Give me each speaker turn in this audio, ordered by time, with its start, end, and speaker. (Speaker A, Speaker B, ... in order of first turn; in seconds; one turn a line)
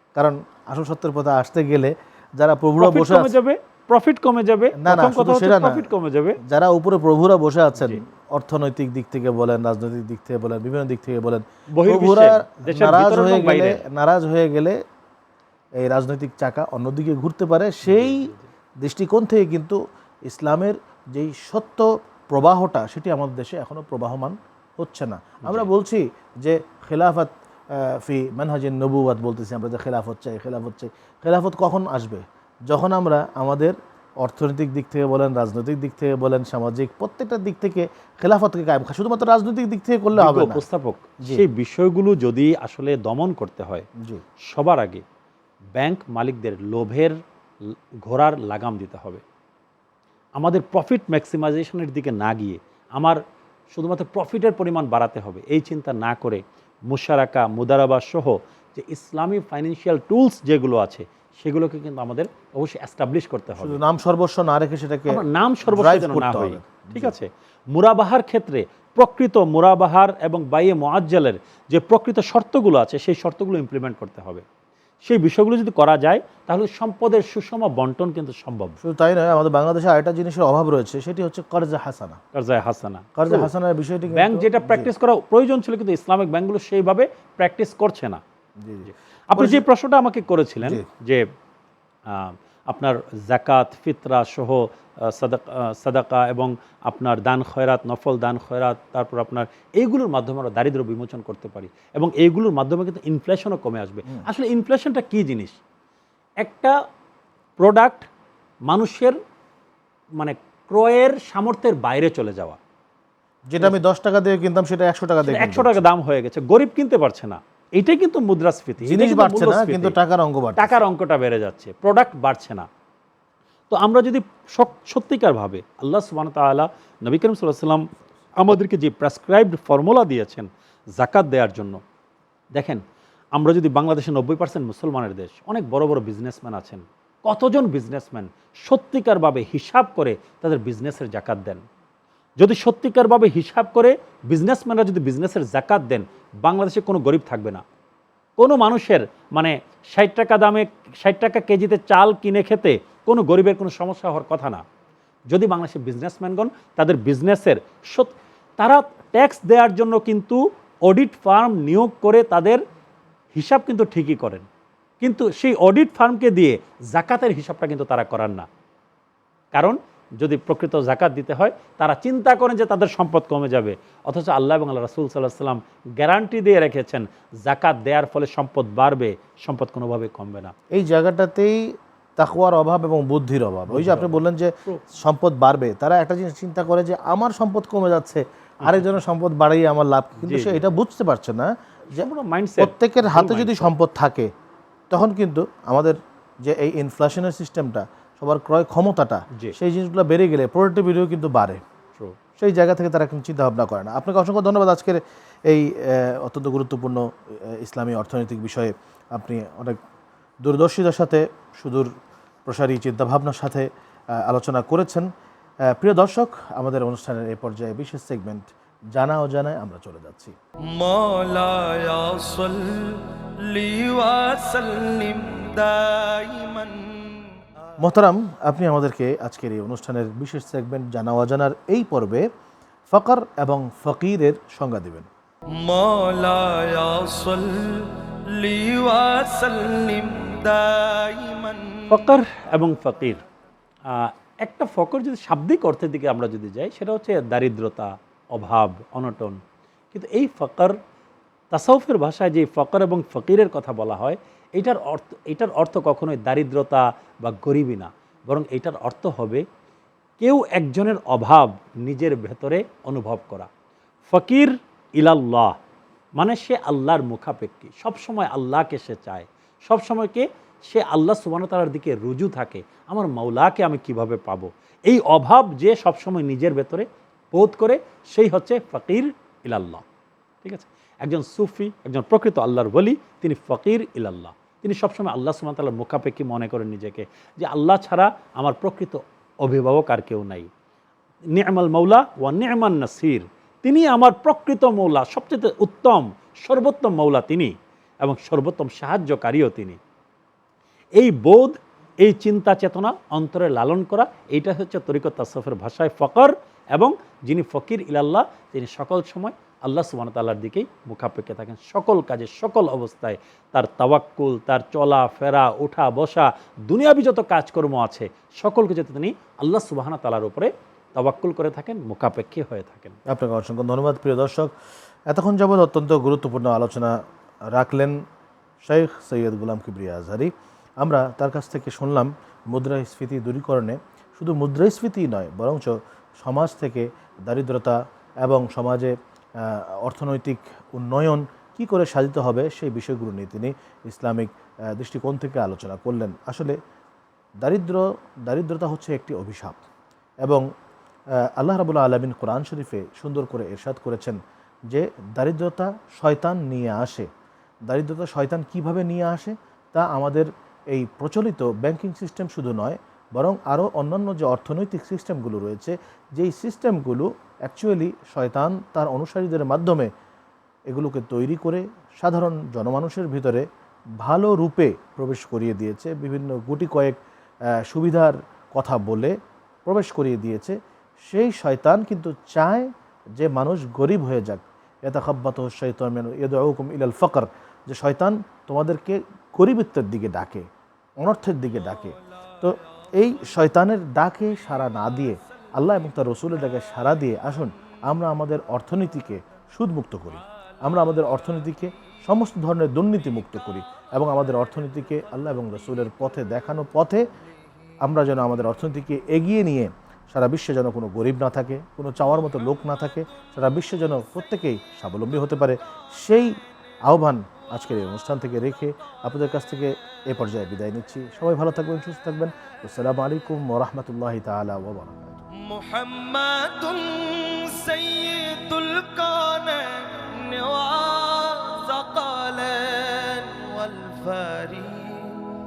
Speaker A: 0.1-3.4
Speaker B: 2.8-6.4
Speaker A: 4.8-5.9
Speaker A: 6.4-14.8
Speaker B: 11.7-13.8
Speaker A: 15.8-40.6
Speaker B: 17.9-18.5
Speaker B: 25.4-25.7
Speaker B: 40.1-43.9
Speaker B: 44.4-45.0
Speaker B: 45.7-47.2
Speaker B: 48.0-49.2
Speaker B: 50.4-53.2
Speaker B: 53.7-63.8
Speaker A: 63.6-67.1
Speaker B: 65.1-74.4
Speaker B: 75.0-78.8
Speaker A: 78.8-82.2
Speaker B: 82.3-83.5
Speaker A: 83.2-84.9
Speaker B: 84.1-88.2
Speaker A: 88.6-89.6
Speaker B: 88.8-91.2
Speaker B: 92.1-105.6
Speaker B: 106.4-106.8
Speaker B: 107.6-108.1
Speaker B: 108.7-109.2
Speaker B: 110.2-112.6
Speaker A: 113.5-115.8
Speaker B: 115.2-120.0
Speaker A: 118.8-120.8
Speaker B: 120.5-122.7
Speaker B: 123.7-131.8
Speaker B: 132.5-132.8
Speaker B: 133.3-141.6
Speaker B: 142.4-147.6
Speaker B: 148.4-154.6
Speaker B: 155.3-162.6
Speaker B: 163.3-164.4
Speaker B: 165.0-168.4
Speaker B: 169.5-180.5
Speaker A: 180.7-192.1
Speaker B: 183.7-184.8
Speaker B: 190.2-190.7
Speaker B: 191.9-193.7
Speaker A: 192.6-194.3
Speaker A: 194.9-201.6
Speaker A: 202.4-209.8
Speaker A: 210.4-211.9
Speaker A: 212.4-215.1
Speaker A: 215.7-220.3
Speaker C: 220.7-227.3
Speaker A: 227.8-232.3
Speaker A: 232.9-235.1
Speaker C: 235.6-241.9
Speaker B: 241.9-243.2
Speaker B: 243.9-249.4
Speaker B: 249.9-250.8
Speaker B: 251.5-259.4
Speaker B: 260.2-263.5
Speaker B: 264.1-265.6
Speaker B: 266.2-279.8
Speaker B: 280.4-290.5
Speaker B: 291.3-299.8
Speaker B: 301.0-323.0
Speaker A: 323.1-324.5
Speaker A: 325.1-327.0
Speaker A: 327.5-328.0
Speaker A: 328.6-346.6
Speaker A: 347.4-349.6
Speaker A: 351.4-357.1
Speaker A: 357.7-369.9
Speaker A: 370.7-373.4
Speaker A: 374.0-377.0
Speaker A: 377.6-390.5
Speaker A: 391.0-407.1
Speaker A: 407.8-425.2
Speaker C: 425.4-435.1